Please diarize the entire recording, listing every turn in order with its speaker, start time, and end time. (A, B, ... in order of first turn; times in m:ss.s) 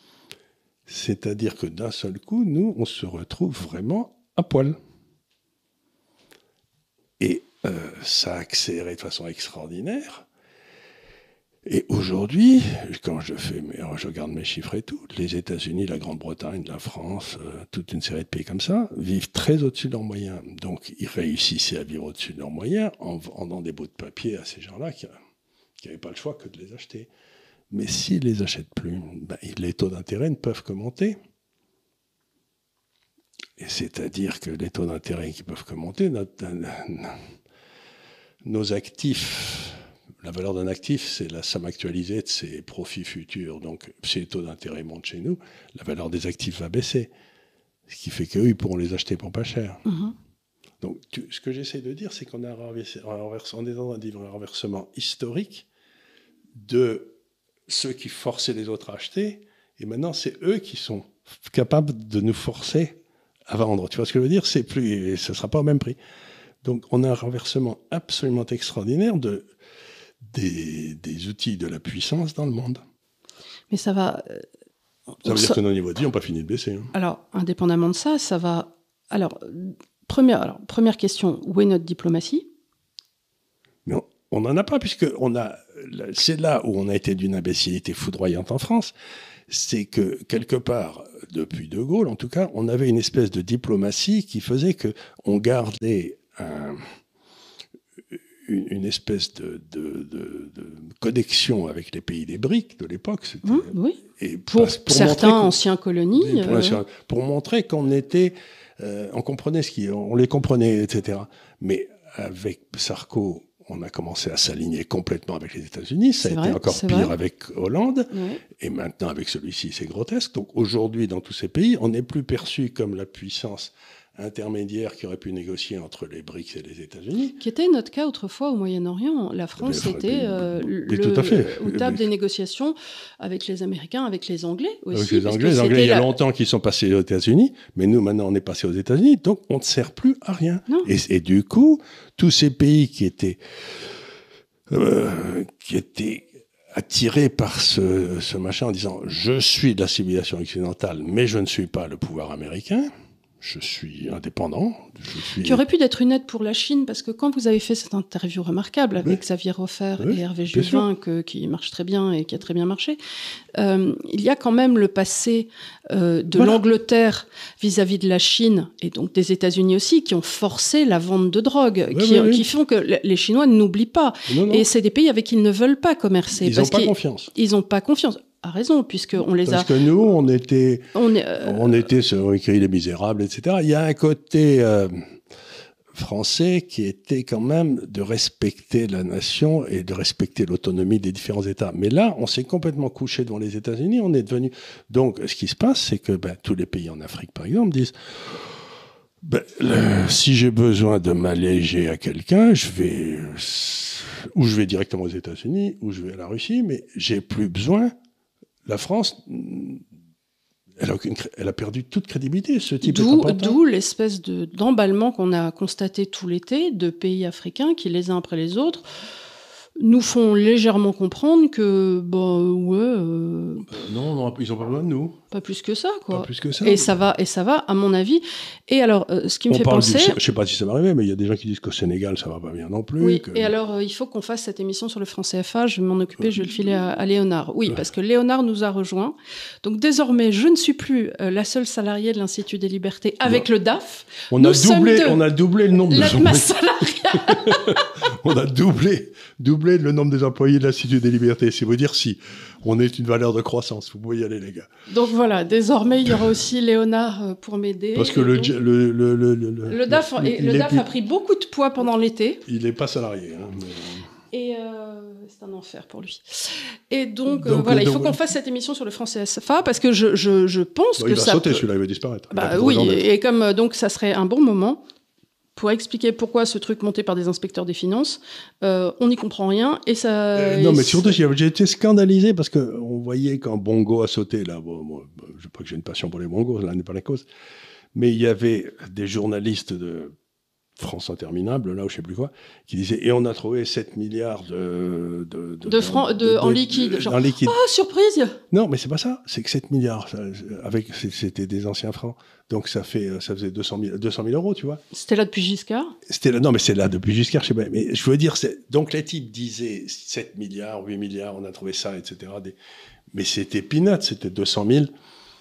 0:00.9-0:04.8 A
0:07.2-0:10.2 A
0:11.6-0:25.1 A
0:25.8-0:27.1 A
0:27.7-0:31.2 A
0:33.6-0:37.3 A
0:38.4-0:47.1 A
0:47.9-0:49.8 A
0:49.8-0:50.1 B
0:50.8-0:55.6 A
0:56.5-0:57.1 A
0:57.7-1:06.0 A
1:06.6-1:09.5 A
1:10.2-1:12.8 A
1:13.7-1:14.4 B
1:15.2-1:15.6 B
1:15.2-1:16.9 A
1:16.9-1:22.5 B
1:23.8-1:28.9 A
1:29.5-1:36.8 A
1:38.4-1:45.5 A
1:43.4-1:46.8 B
1:46.2-2:07.4 A
1:56.2-1:57.1 B
1:58.1-1:58.4 B
2:07.4-2:16.1 B
2:09.6-2:12.0 A
2:14.9-2:23.9 A
2:24.7-2:35.6 A
2:35.4-2:43.0 B
2:40.0-2:40.8 A
2:43.5-2:59.7 B
2:46.3-2:46.6 A
2:51.9-2:52.4 A
2:54.3-2:54.7 A
2:56.3-2:57.3 A
2:59.4-3:05.0 A
3:00.9-3:01.8 B
3:05.9-3:18.7 A
3:19.2-3:27.9 A
3:28.6-3:29.8 A
3:30.8-3:33.6 A
3:32.8-3:38.8 B
3:39.8-3:43.8 B
3:43.7-3:45.2 A
3:45.3-3:50.2 B
3:46.1-3:46.9 A
3:49.5-3:53.5 A
3:53.0-4:05.2 B
4:04.3-4:14.7 A
4:05.9-4:07.9 B
4:14.9-4:18.5 B
4:17.9-4:20.9 A
4:19.7-4:22.4 B
4:22.4-4:24.1 A
4:24.3-4:31.6 B
4:27.3-4:28.2 A
4:31.0-4:33.0 A
4:32.3-4:34.8 B
4:35.6-4:41.2 B
4:40.3-4:47.2 A
4:47.9-4:50.1 A
4:50.8-4:57.6 A
4:55.6-4:58.4 B
4:58.5-5:04.8 A
5:04.9-5:05.9 B
5:06.0-5:12.5 A
5:13.1-5:14.9 A